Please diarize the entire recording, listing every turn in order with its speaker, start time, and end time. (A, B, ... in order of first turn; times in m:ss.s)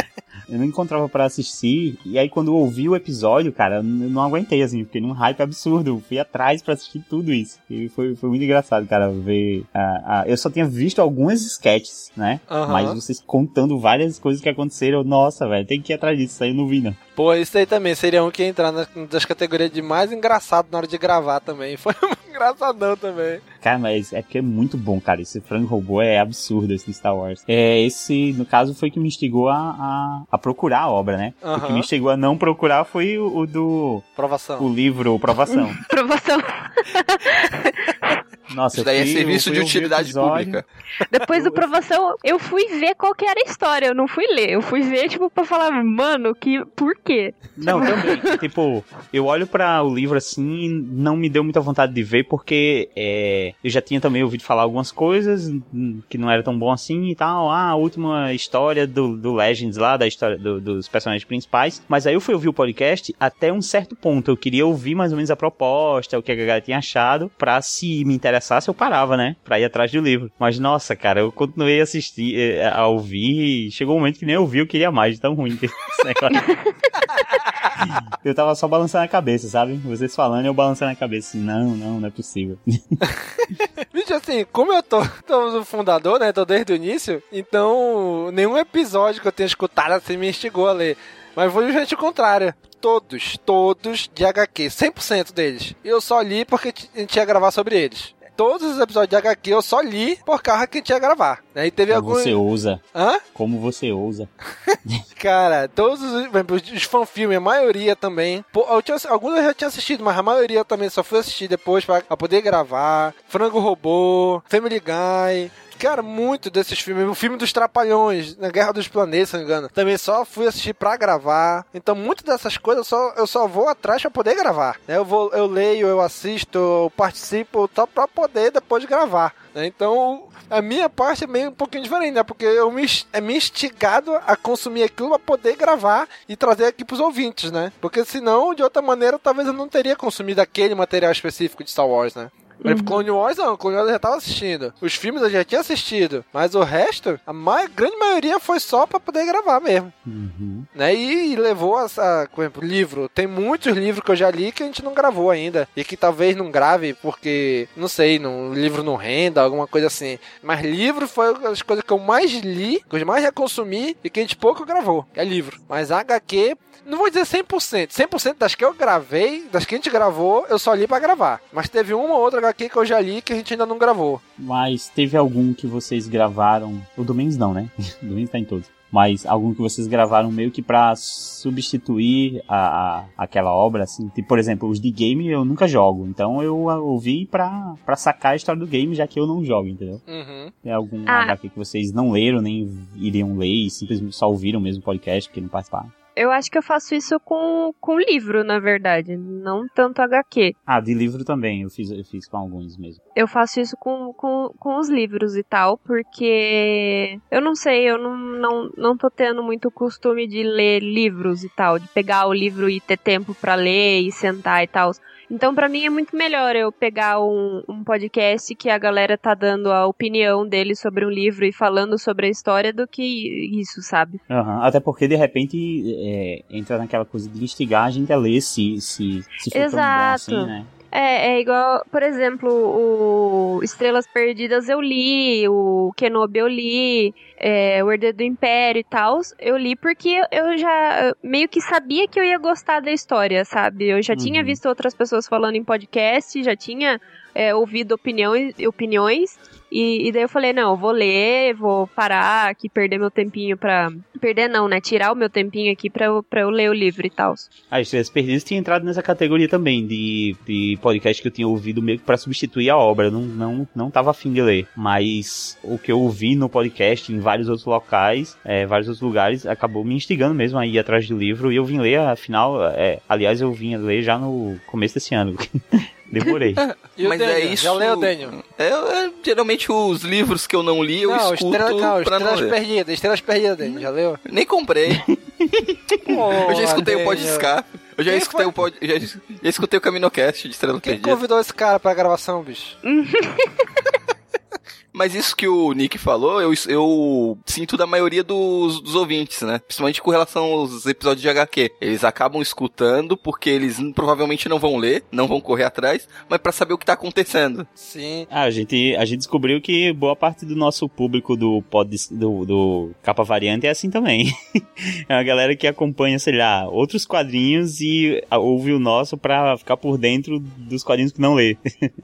0:00.5-0:17.0 A
0:12.5-0:13.0 B
0:17.2-0:23.4 B
0:23.6-0:34.1 A
0:31.4-0:31.9 B
0:34.2-0:34.7 B
0:34.6-0:35.8 A
0:35.5-0:38.1 C
0:38.5-0:40.6 A
0:38.7-0:40.6 D
0:41.1-0:48.2 C
0:41.3-0:41.6 B
0:47.6-1:16.4 A
1:17.8-1:22.6 A
1:23.9-1:42.4 B
1:41.9-1:42.8 A
1:42.9-1:43.2 B
1:43.4-1:44.3 A
1:45.2-2:29.9 B
2:22.6-2:23.0 C
2:30.1-2:30.7 A
2:30.7-2:54.2 B
2:54.4-3:10.0 A
3:10.1-3:10.5 B
3:10.6-3:15.9 A
3:11.1-3:11.4 C
3:16.2-3:20.6 C
3:20.7-3:23.0 A
3:23.2-3:44.2 C
3:44.3-3:50.7 A
3:49.5-4:17.5 C
4:04.1-4:04.6 A
4:17.7-4:36.6 A
4:36.6-4:42.5 D
4:37.0-4:38.4 B
4:41.1-4:44.2 B
4:43.6-4:51.2 D
4:46.1-4:47.5 B
4:48.1-4:48.5 B
4:50.8-4:52.8 B
4:52.8-4:53.6 C
4:54.9-5:07.7 D
5:07.8-5:08.3 B
5:08.3-5:14.3 A
5:15.1-5:21.6 A